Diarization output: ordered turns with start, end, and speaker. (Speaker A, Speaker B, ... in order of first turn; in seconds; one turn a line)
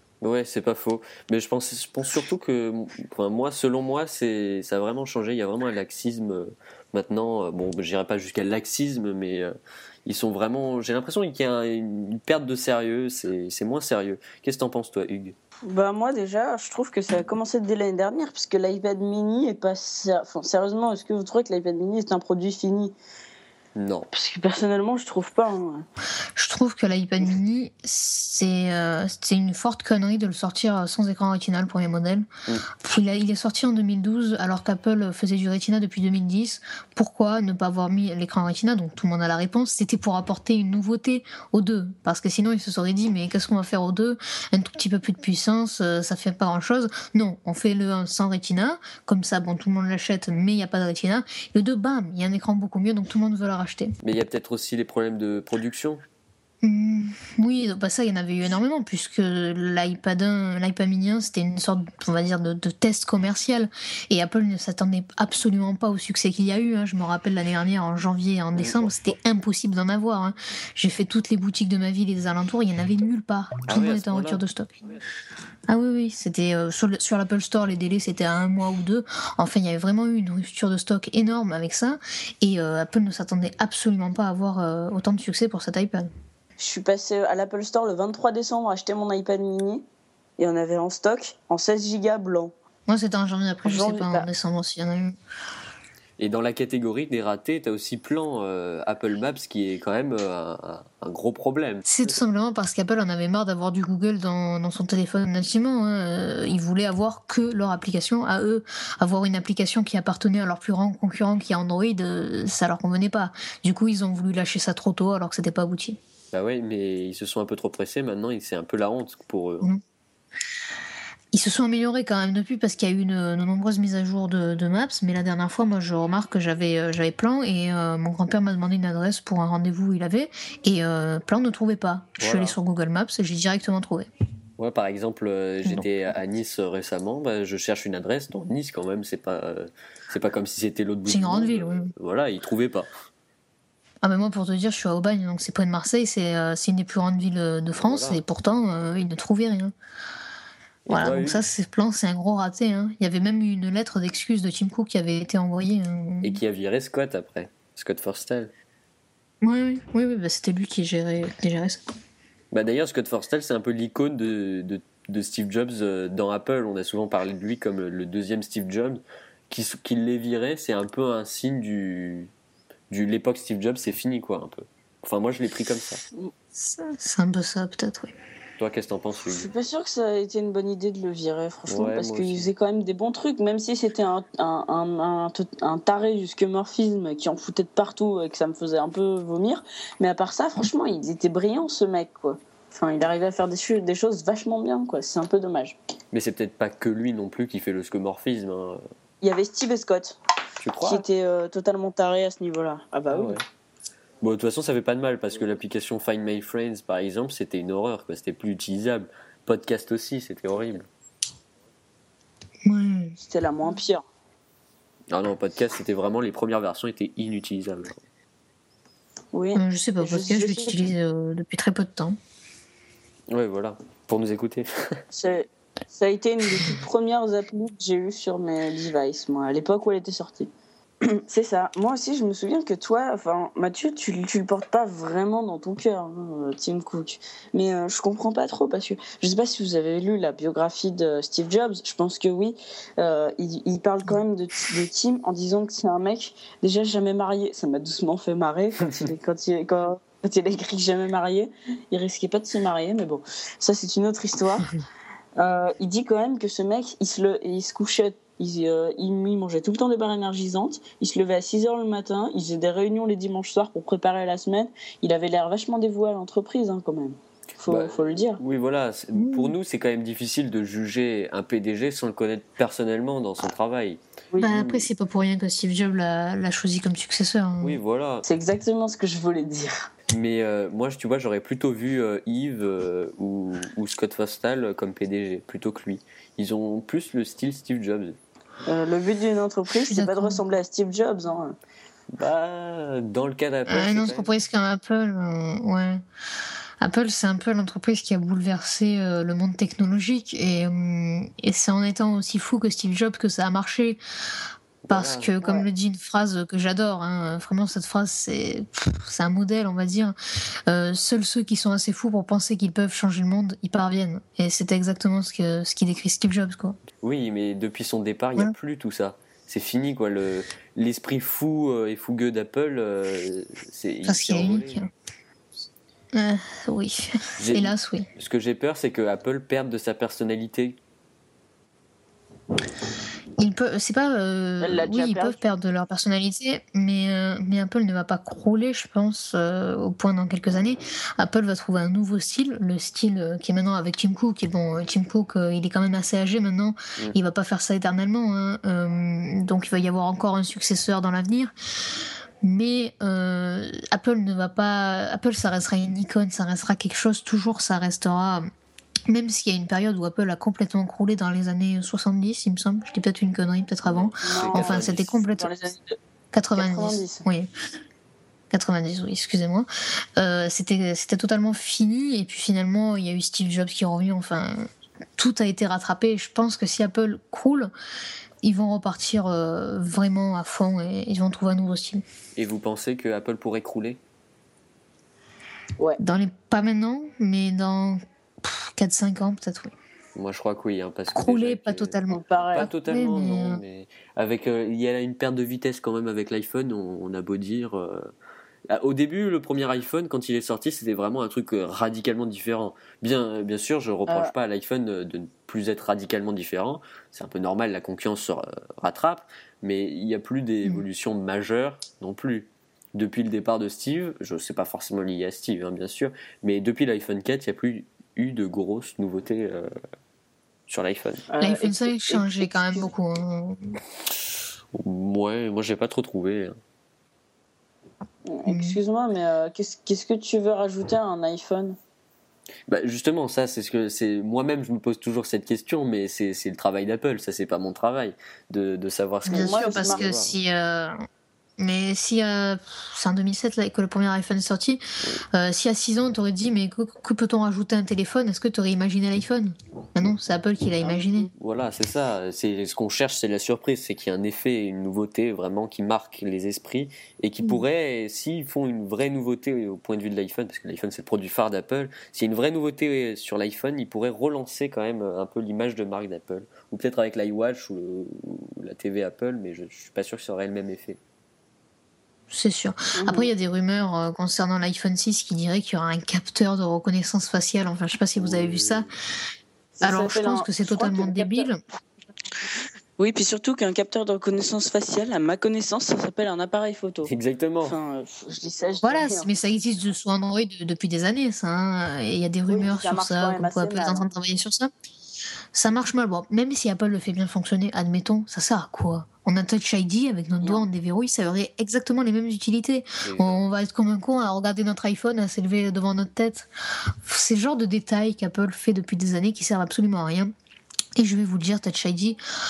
Speaker A: 0.2-9.5
Speaker A: 10.1-15.3
Speaker B: 15.7-22.9
Speaker A: 23.8-24.1
Speaker B: 24.1-25.9
Speaker C: 26.4-32.2
Speaker C: 32.8-54.0
Speaker A: 54.0-56.0
Speaker C: 56.6-74.8
Speaker A: 68.5-68.9
Speaker A: 73.7-74.4
Speaker C: 75.7-86.1
Speaker B: 86.6-89.8
Speaker B: 90.4-92.5
Speaker C: 92.9-95.2
Speaker B: 93.7-94.3
Speaker A: 96.2-101.9
Speaker C: 101.9-116.0
Speaker A: 116.3-119.7
Speaker C: 121.3-134.1
Speaker A: 132.2-132.6
Speaker A: 134.6-142.9
Speaker C: 141.1-141.9
Speaker C: 144.0-149.7
Speaker A: 147.8-148.2
Speaker C: 150.9-156.4
Speaker A: 151.0-151.4
Speaker A: 156.2-158.5
Speaker C: 159.4-161.8
Speaker A: 162.5-172.3
Speaker A: 172.9-176.0
Speaker C: 176.6-178.1
Speaker A: 178.6-179.5
Speaker B: 179.2-195.8
Speaker A: 181.7-182.5
Speaker A: 196.1-198.8
Speaker B: 199.2-200.2
Speaker A: 200.6-201.0
Speaker B: 200.8-203.4
Speaker A: 203.1-203.4
Speaker A: 204.2-210.9
Speaker C: 212.7-213.2
Speaker B: 213.2-214.0
Speaker A: 215.1-218.0
Speaker B: 219.3-220.9
Speaker C: 219.5-222.2
Speaker A: 223.3-225.0
Speaker B: 225.1-230.5
Speaker B: 231.0-254.7
Speaker B: 255.4-268.4
Speaker A: 267.7-274.8
Speaker C: 269.1-269.5
Speaker B: 274.3-274.7
Speaker C: 274.4-277.8
Speaker A: 277.6-278.2
Speaker B: 278.2-279.9
Speaker A: 280.1-288.2
Speaker B: 288.7-291.5
Speaker C: 289.8-290.4
Speaker A: 292.1-294.3
Speaker C: 293.7-296.0
Speaker C: 296.8-304.0
Speaker A: 304.8-305.3
Speaker C: 304.9-310.1
Speaker C: 310.7-316.8
Speaker A: 317.0-324.9
Speaker C: 324.0-324.9
Speaker C: 326.1-328.1
Speaker A: 327.4-330.8
Speaker C: 333.4-351.5
Speaker B: 334.6-335.4
Speaker C: 352.4-358.5
Speaker C: 359.1-365.5
Speaker A: 363.9-365.1
Speaker B: 364.2-366.0
Speaker C: 366.3-367.5
Speaker B: 366.6-367.2
Speaker C: 368.5-377.7
Speaker C: 378.4-382.0
Speaker A: 382.4-384.0
Speaker C: 386.0-389.7
Speaker A: 390.2-392.0
Speaker C: 391.1-393.6
Speaker B: 392.1-392.7
Speaker A: 392.5-398.1
Speaker A: 398.7-419.7
Speaker B: 404.1-404.3
Speaker A: 420.7-421.2
Speaker B: 421.3-422.9
Speaker C: 421.4-423.8
Speaker A: 424.7-426.6
Speaker B: 428.3-431.8
Speaker C: 428.5-428.8
Speaker A: 432.7-440.4
Speaker C: 439.2-440.9
Speaker B: 439.3-440.1
Speaker C: 441.6-444.8
Speaker C: 445.3-451.3
Speaker B: 450.9-451.1
Speaker A: 451.3-471.0
Speaker C: 472.3-478.9
Speaker B: 472.9-473.3
Speaker A: 478.2-478.9
Speaker B: 479.8-481.5
Speaker C: 479.8-481.6
Speaker B: 483.0-487.1
Speaker A: 487.0-487.8
Speaker B: 487.6-489.3
Speaker C: 488.8-494.7
Speaker B: 492.5-494.1
Speaker C: 495.5-506.5
Speaker A: 503.0-503.4
Speaker C: 507.0-510.3
Speaker C: 511.0-512.2